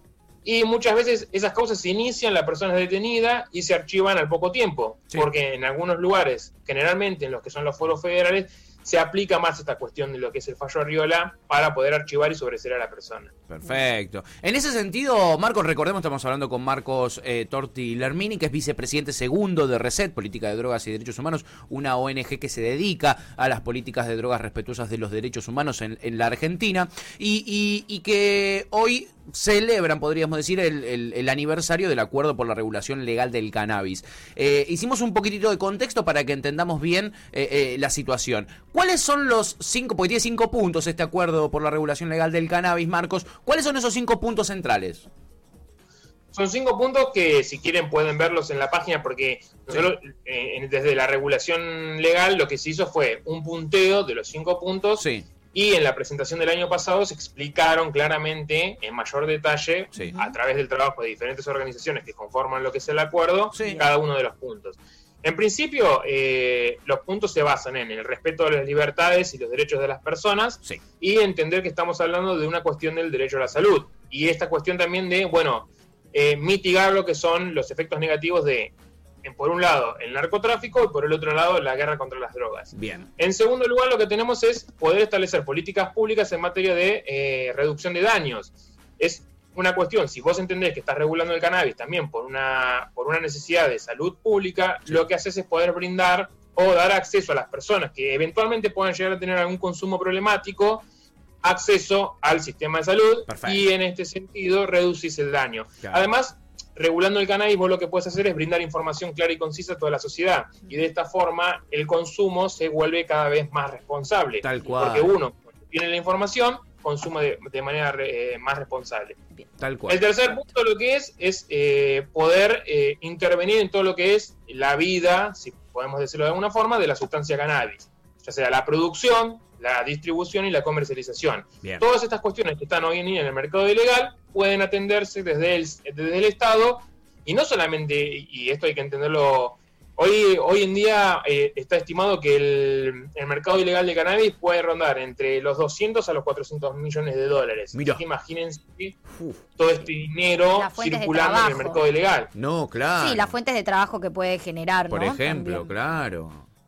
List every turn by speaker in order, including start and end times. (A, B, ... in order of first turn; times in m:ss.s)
0:00.4-0:13.3 A
0:13.5-0:45.1 B
0:46.3-1:18.7 A
0:55.0-0:55.3 B
1:03.5-1:03.9 B
1:19.2-1:40.9 A
1:22.7-1:23.1 B
1:41.4-1:59.2 A
1:43.3-1:43.6 B
1:45.8-1:46.1 B
1:54.4-1:55.1 B
1:59.6-2:00.0 B
1:59.9-2:29.0 A
2:27.7-2:28.0 B
2:29.1-2:29.4 B
2:29.6-2:32.3 A
2:30.6-2:31.8 C
2:32.4-2:33.3 B
2:33.0-2:35.7 C
2:34.9-2:36.4 B